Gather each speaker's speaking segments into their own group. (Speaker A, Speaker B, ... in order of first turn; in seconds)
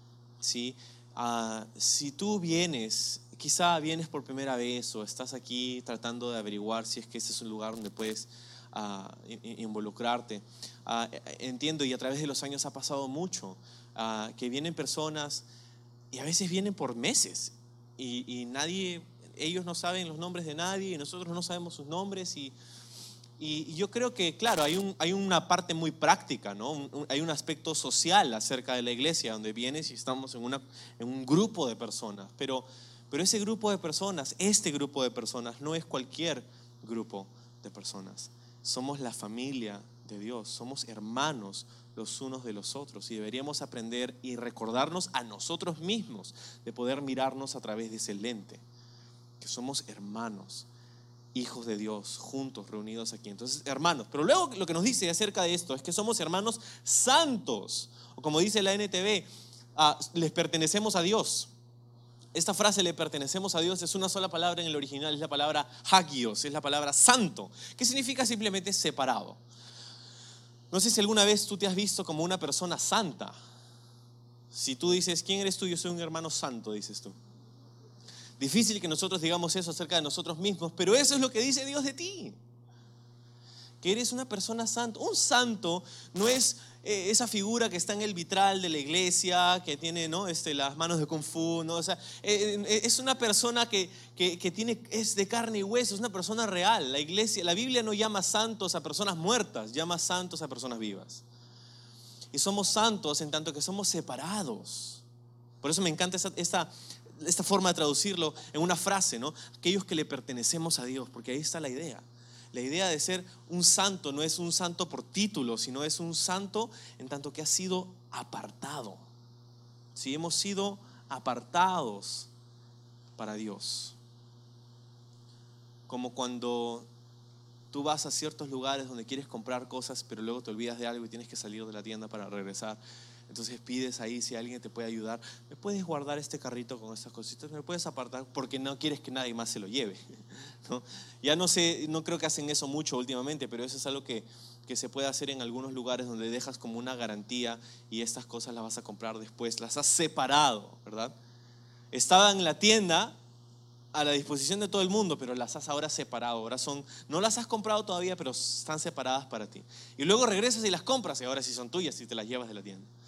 Speaker A: 0.4-15.4, 16.1-22.5, 23.4-48.6, 49.4-50.7, 51.3-61.5, 62.3-69.4, 70.7-73.3, 74.5-77.2, 78.4-82.4, 83.8-101.2, 102.3-105.0, 105.6-119.0, 119.9-122.3, 123.2-124.0, 125.9-126.9, 127.7-151.1, 151.9-153.2, 153.9-162.9